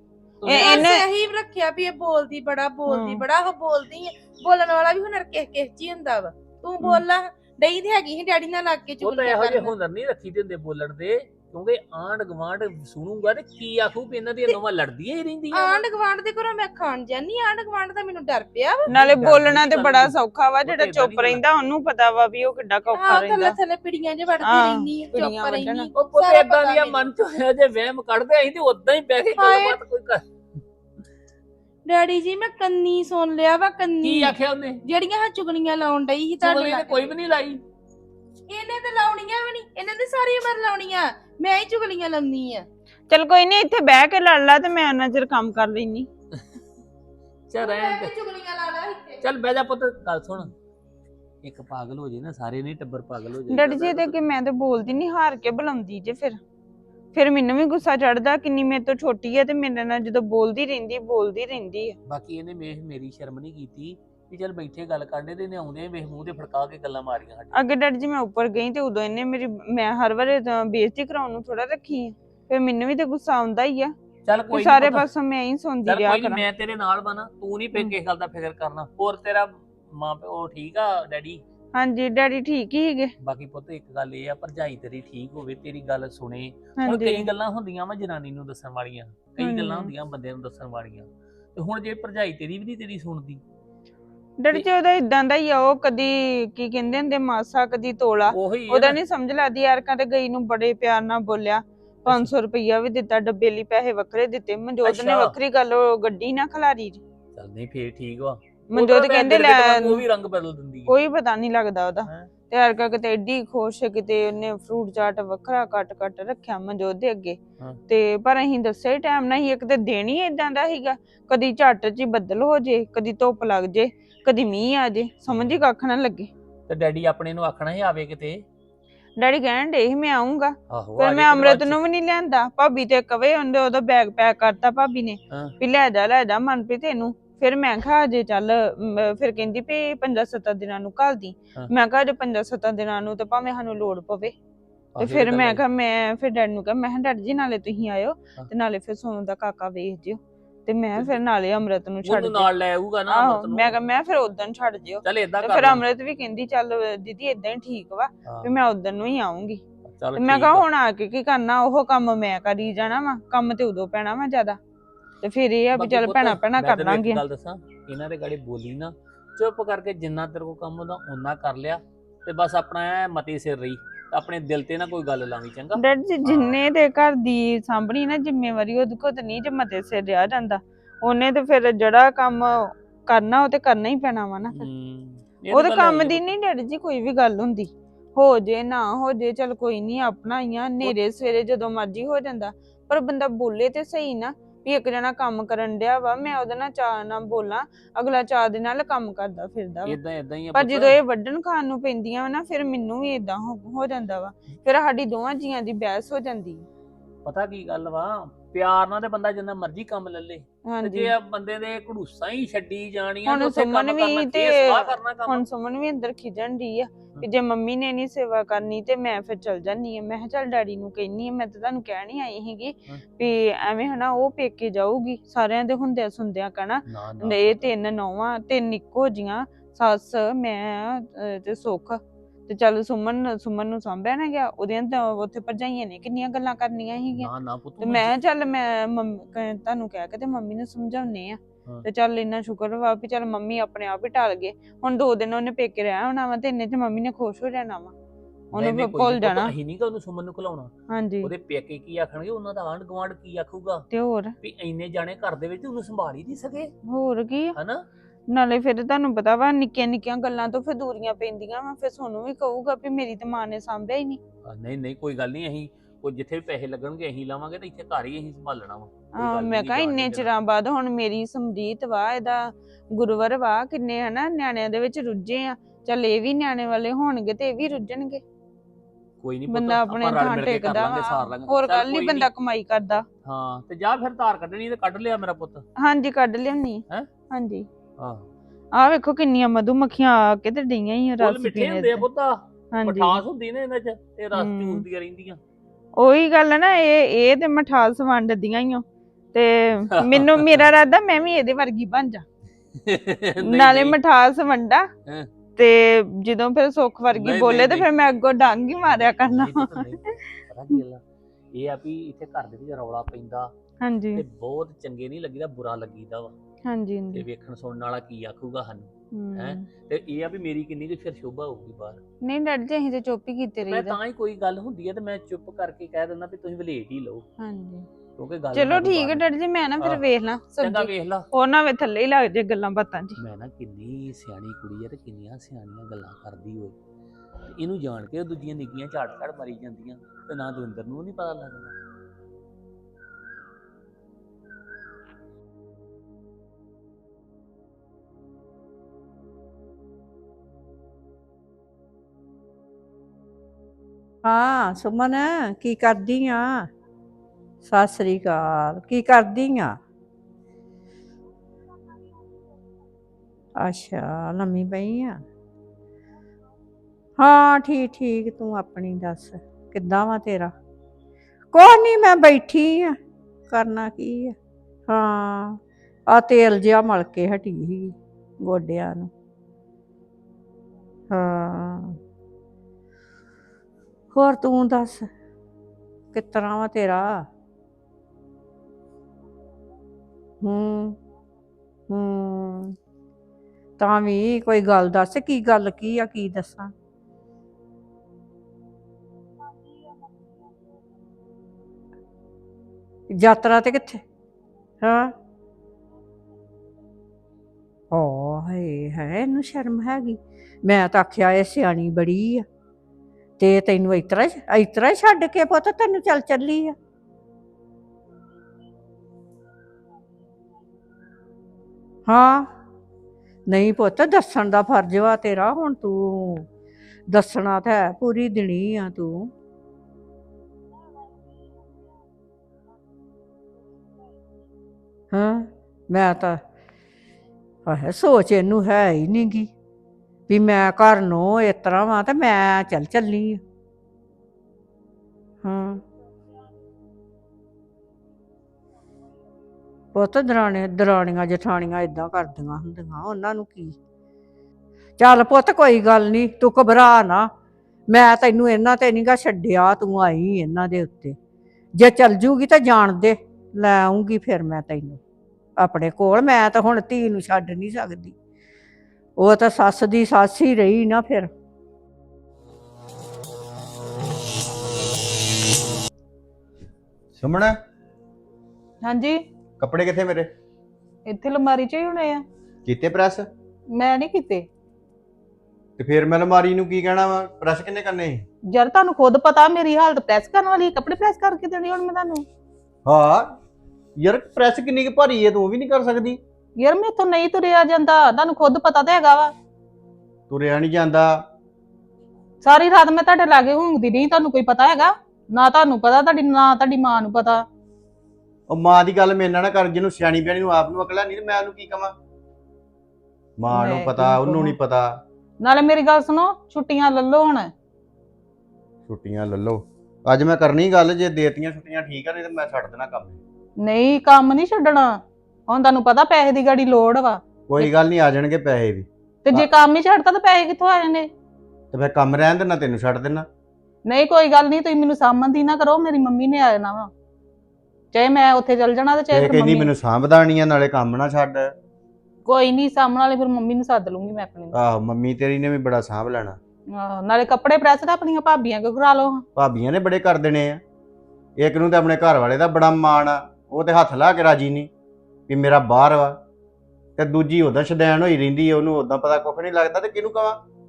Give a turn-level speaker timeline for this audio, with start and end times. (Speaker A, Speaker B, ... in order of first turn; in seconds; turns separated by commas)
Speaker A: 0.4-0.9, Speaker B: 0.5-1.1, Speaker C: 0.6-9.7, Speaker B: 2.9-3.2, Speaker A: 9.0-15.9, Speaker C: 15.5-18.8, Speaker B: 18.9-23.6, Speaker A: 18.9-21.4, Speaker C: 23.1-27.1, Speaker B: 24.4-25.9, Speaker A: 25.9-30.2, Speaker C: 29.4-29.8, Speaker C: 31.9-34.3, Speaker A: 34.0-34.8, Speaker C: 34.9-37.1, Speaker A: 36.4-37.6, Speaker C: 38.5-42.6, Speaker B: 43.1-46.1, Speaker A: 47.5-48.1, Speaker C: 47.6-49.2, Speaker A: 49.2-50.5, Speaker A: 51.4-54.2, Speaker B: 53.5-56.4, Speaker B: 57.1-62.0, Speaker A: 62.1-67.5, Speaker B: 67.5-73.9, Speaker A: 74.3-75.1, Speaker B: 74.5-76.4, Speaker A: 75.8-81.4, Speaker B: 81.8-83.1, Speaker A: 83.2-93.4, Speaker B: 86.8-87.3, Speaker B: 89.4-89.9, Speaker B: 94.4-107.0, Speaker A: 98.3-99.0, Speaker A: 104.8-105.4, Speaker A: 107.3-110.9, Speaker B: 108.7-110.0, Speaker B: 110.9-117.4, Speaker B: 117.9-126.3, Speaker A: 125.3-125.6, Speaker A: 126.7-128.4, Speaker B: 129.2-144.3, Speaker A: 130.7-131.8, Speaker A: 144.9-145.6, Speaker B: 145.0-152.5, Speaker A: 152.0-153.8, Speaker B: 153.1-159.6, Speaker A: 155.0-155.8, Speaker A: 158.2-158.5, Speaker A: 159.8-160.7, Speaker B: 160.2-164.6, Speaker B: 165.2-167.2, Speaker A: 165.7-176.6, Speaker B: 175.8-184.7, Speaker A: 184.5-186.3, Speaker B: 185.5-200.0, Speaker A: 199.8-201.0, Speaker B: 200.5-206.7, Speaker A: 207.2-215.4, Speaker B: 210.7-211.1, Speaker B: 213.3-247.9, Speaker A: 226.9-227.7, Speaker A: 237.2-238.1, Speaker B: 248.5-249.5, Speaker A: 248.5-253.8, Speaker B: 250.9-251.3, Speaker B: 253.9-254.3, Speaker A: 254.4-256.7, Speaker B: 256.9-257.5, Speaker A: 257.6-257.8, Speaker B: 258.3-264.2, Speaker A: 264.4-270.3, Speaker B: 269.2-278.2, Speaker A: 279.2-282.3, Speaker B: 279.5-283.0, Speaker A: 283.2-285.6, Speaker B: 285.8-287.7, Speaker A: 288.0-288.3, Speaker B: 288.8-292.1, Speaker A: 291.2-295.4, Speaker B: 292.7-293.2, Speaker B: 294.4-294.8, Speaker B: 296.0-302.2, Speaker A: 300.0-300.7, Speaker A: 302.9-304.0, Speaker B: 303.4-304.9, Speaker B: 305.6-309.9, Speaker A: 307.1-307.9, Speaker A: 308.8-311.0, Speaker A: 311.5-313.5, Speaker B: 313.8-314.2, Speaker A: 314.2-316.3, Speaker B: 316.6-317.2, Speaker A: 317.1-322.0, Speaker B: 319.1-319.6, Speaker B: 322.2-324.0, Speaker A: 323.7-327.2, Speaker B: 327.4-327.9, Speaker A: 328.2-329.3, Speaker B: 328.5-333.2, Speaker A: 329.8-330.1, Speaker A: 330.6-331.3, Speaker A: 333.2-336.8, Speaker A: 337.5-341.8, Speaker D: 354.2-356.7, Speaker D: 357.6-359.8, Speaker D: 363.6-365.2, Speaker D: 367.2-370.5, Speaker D: 371.5-373.0, Speaker D: 373.5-374.4, Speaker D: 374.9-375.6, Speaker D: 376.1-379.1, Speaker D: 381.1-382.0, Speaker D: 384.1-385.1, Speaker D: 386.1-387.3, Speaker D: 390.4-391.0, Speaker D: 391.9-392.8, Speaker D: 393.8-396.7, Speaker D: 403.1-404.0, Speaker D: 404.8-405.1, Speaker D: 407.9-412.4, Speaker D: 413.4-416.8, Speaker D: 422.1-422.5, Speaker D: 423.5-426.5, Speaker D: 427.1-429.3, Speaker D: 435.1-436.4, Speaker D: 437.7-439.5, Speaker D: 440.3-443.4, Speaker D: 445.4-445.8, Speaker D: 449.9-453.8, Speaker D: 455.0-457.3, Speaker D: 457.9-461.2, Speaker D: 461.8-465.0, Speaker D: 465.6-468.2, Speaker D: 469.2-471.3, Speaker E: 477.2-477.5, Speaker F: 478.8-479.2, Speaker E: 479.6-480.3, Speaker F: 481.1-482.2, Speaker E: 482.6-483.3, Speaker F: 483.7-484.5, Speaker E: 485.8-488.2, Speaker F: 488.5-492.2, Speaker E: 492.9-493.3, Speaker E: 494.0-496.2, Speaker F: 496.6-499.3, Speaker E: 500.3-501.2, Speaker F: 502.4-507.4, Speaker E: 508.5-511.9, Speaker E: 513.4-514.9, Speaker F: 513.5-514.6, Speaker F: 515.4-517.5, Speaker E: 518.9-523.2, Speaker F: 523.6-527.7, Speaker E: 527.5-529.5, Speaker F: 529.2-531.1, Speaker E: 531.7-533.3, Speaker F: 533.9-536.9, Speaker F: 537.9-539.7, Speaker E: 539.1-541.5, Speaker F: 542.2-544.5, Speaker E: 544.5-546.4, Speaker F: 546.7-549.2, Speaker E: 549.4-550.6, Speaker E: 551.4-554.7, Speaker E: 555.3-556.2, Speaker E: 557.0-560.4